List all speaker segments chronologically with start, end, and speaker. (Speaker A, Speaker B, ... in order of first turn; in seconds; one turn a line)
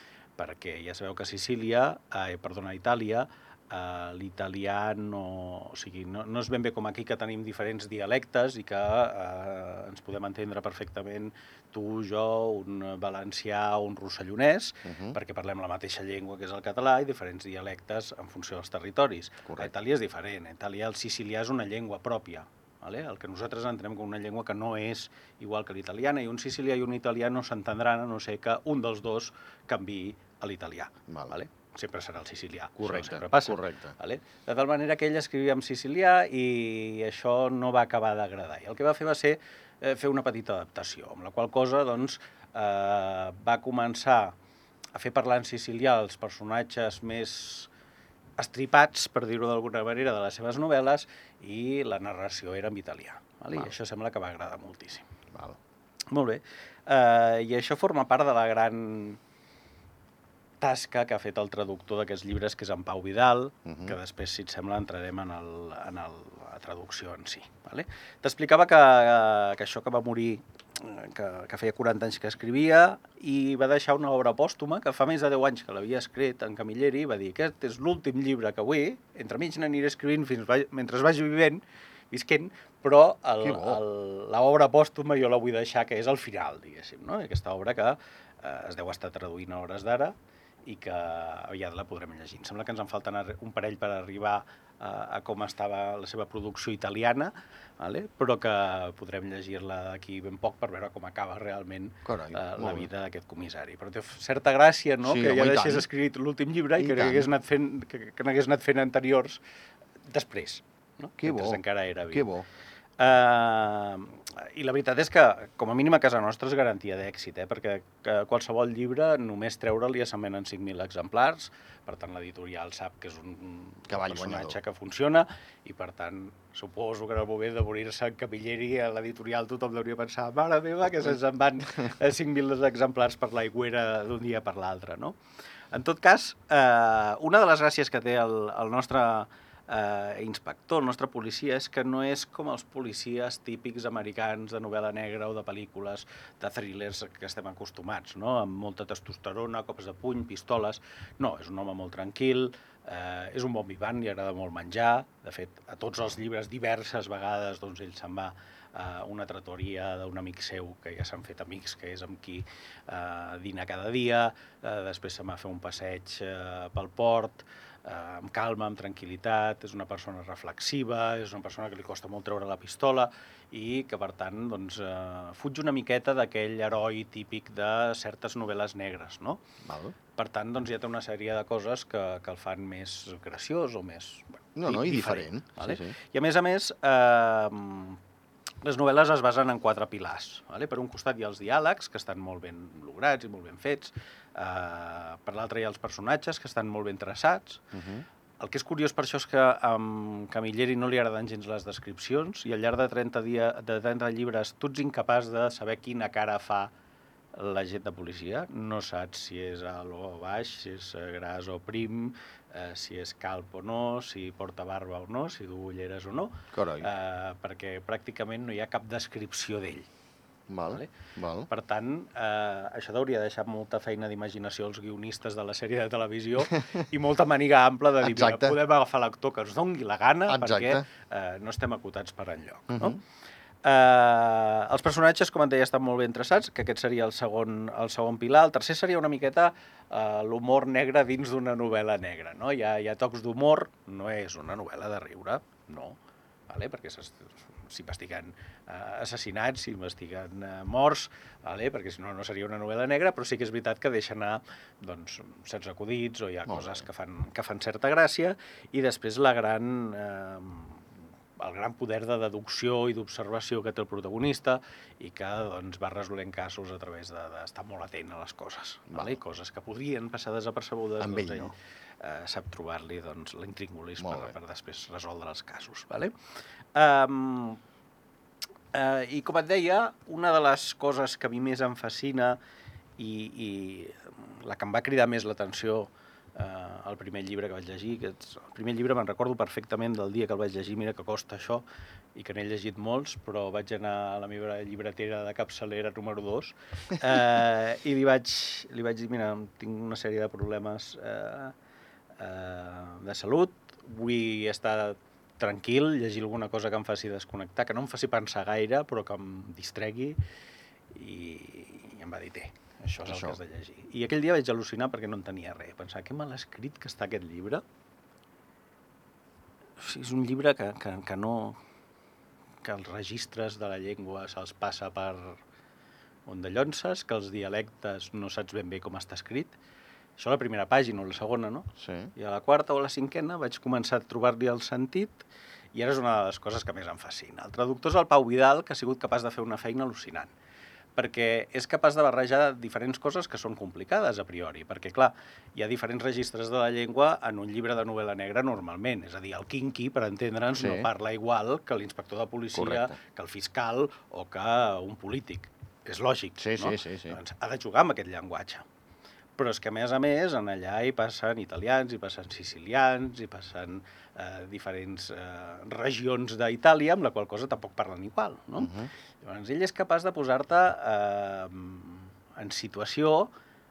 Speaker A: 0.4-44.4
Speaker B: 14.8-15.2
Speaker B: 19.5-19.7
Speaker B: 31.1-31.4
Speaker B: 32.8-33.9
Speaker A: 45.0-47.7
Speaker A: 48.4-55.0
Speaker B: 55.3-55.6
Speaker A: 56.1-59.2
Speaker A: 60.6-90.1
Speaker B: 63.7-64.0
Speaker B: 83.4-83.8
Speaker A: 90.7-109.4
Speaker B: 102.0-102.9
Speaker B: 105.0-105.9
Speaker B: 106.8-107.3
Speaker A: 110.1-112.3
Speaker B: 111.2-112.5
Speaker A: 113.0-135.2
Speaker B: 123.9-124.6
Speaker A: 135.7-179.4
Speaker B: 179.6-180.0
Speaker A: 180.2-188.0
Speaker B: 184.6-185.9
Speaker A: 188.6-197.7
Speaker B: 197.7-198.1
Speaker A: 198.4-206.7
Speaker A: 207.4-219.9
Speaker B: 216.5-216.9
Speaker B: 220.5-221.5
Speaker A: 221.5-233.0
Speaker B: 228.0-228.6
Speaker B: 230.3-230.9
Speaker B: 232.7-233.0
Speaker A: 233.6-246.0
Speaker A: 246.5-276.1
Speaker B: 256.5-256.9
Speaker B: 268.9-269.2
Speaker B: 271.0-271.5
Speaker B: 274.0-274.4
Speaker A: 276.7-277.6
Speaker A: 278.7-282.4
Speaker A: 283.0-291.6
Speaker A: 292.1-301.6
Speaker A: 302.2-310.2
Speaker A: 310.9-317.6
Speaker B: 313.0-313.4
Speaker A: 319.8-321.6
Speaker A: 322.6-325.4
Speaker A: 326.3-329.6
Speaker A: 330.2-340.3
Speaker B: 331.8-332.1
Speaker A: 341.0-358.6
Speaker B: 350.6-350.9
Speaker B: 352.5-353.0
Speaker B: 356.4-357.2
Speaker A: 359.4-373.3
Speaker B: 368.6-368.9